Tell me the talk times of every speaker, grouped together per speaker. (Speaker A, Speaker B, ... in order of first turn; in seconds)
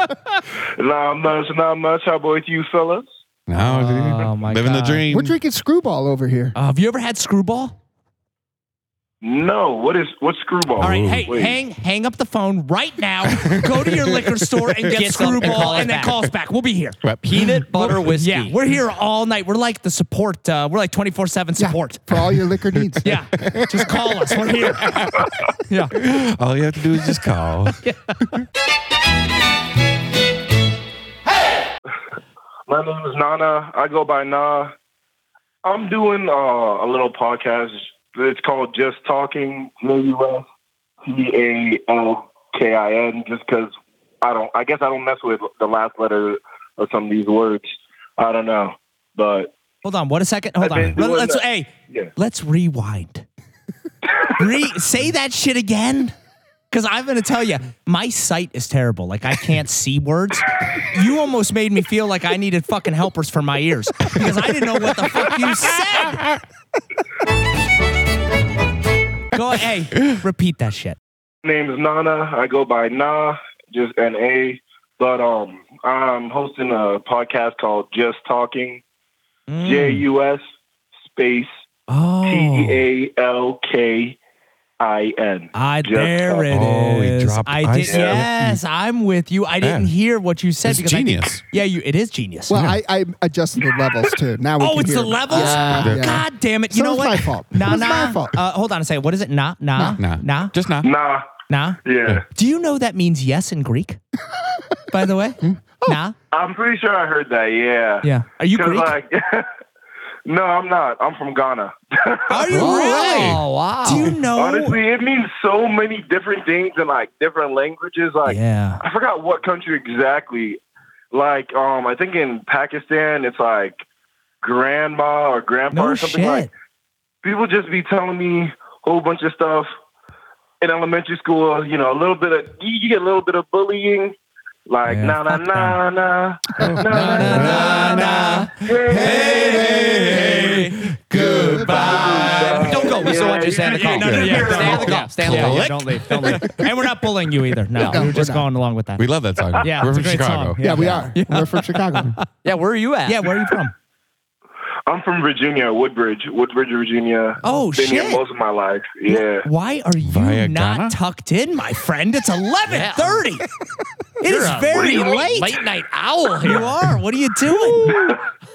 Speaker A: 0.8-3.0, 9.2-11.6, 32.7-34.7, 35.6-40.4, 41.0-47.7, 48.2-49.5, 50.6-52.1, 71.4-78.8, 79.6-80.4, 81.0-81.5, 82.2-84.2, 84.8-86.5, 87.9-88.2, 100.8-101.3, 101.8-102.2, 106.3-109.5, 110.2-113.0, 114.3-120.6, 121.1-123.8, 124.4-126.5, 127.2-129.7, 130.6-140.6, 141.2-145.0, 154.9-159.5, 164.7-165.3, 167.8-168.2
Speaker B: 3.5-5.3, 10.8-11.2, 13.2-15.8, 17.0-17.8, 23.4-24.0, 24.6-25.5, 26.0-28.5, 86.5-88.6, 89.6-89.9, 90.6-91.4, 92.5-92.8, 95.6-96.2, 100.0-100.9, 112.5-113.5, 134.8-135.2, 136.6-140.7, 143.6-146.5, 149.0-151.1, 160.0-160.9
Speaker C: 3.6-5.0, 6.5-7.7, 10.8-17.1, 17.8-22.1, 23.0-24.9, 25.7-25.9, 49.8-53.2, 54.3-56.1, 56.7-66.3, 69.3-71.0, 79.5-80.0, 81.9-82.8, 85.5-92.6, 94.6-100.5, 101.5-104.0, 104.9-106.2, 108.0-108.9, 112.3-113.3, 113.8-114.8, 118.2-118.8, 125.7-126.5, 135.2-135.8, 137.7-138.3, 140.9-149.0, 149.6-152.3, 153.1-153.7, 157.4-158.2, 159.1-163.4, 164.2-165.6, 166.4-168.0
Speaker D: 5.1-6.5, 21.6-23.2, 92.5-98.4, 136.7-137.4, 139.3-140.0, 141.1-142.6, 146.3-146.9, 147.8-148.5, 150.6-152.2
Speaker E: 14.9-16.2, 17.2-18.6, 95.3-95.8, 112.5-114.2, 137.2-140.8, 142.6-146.2, 147.8-148.0, 152.4-153.3, 162.7-163.2, 164.2-166.7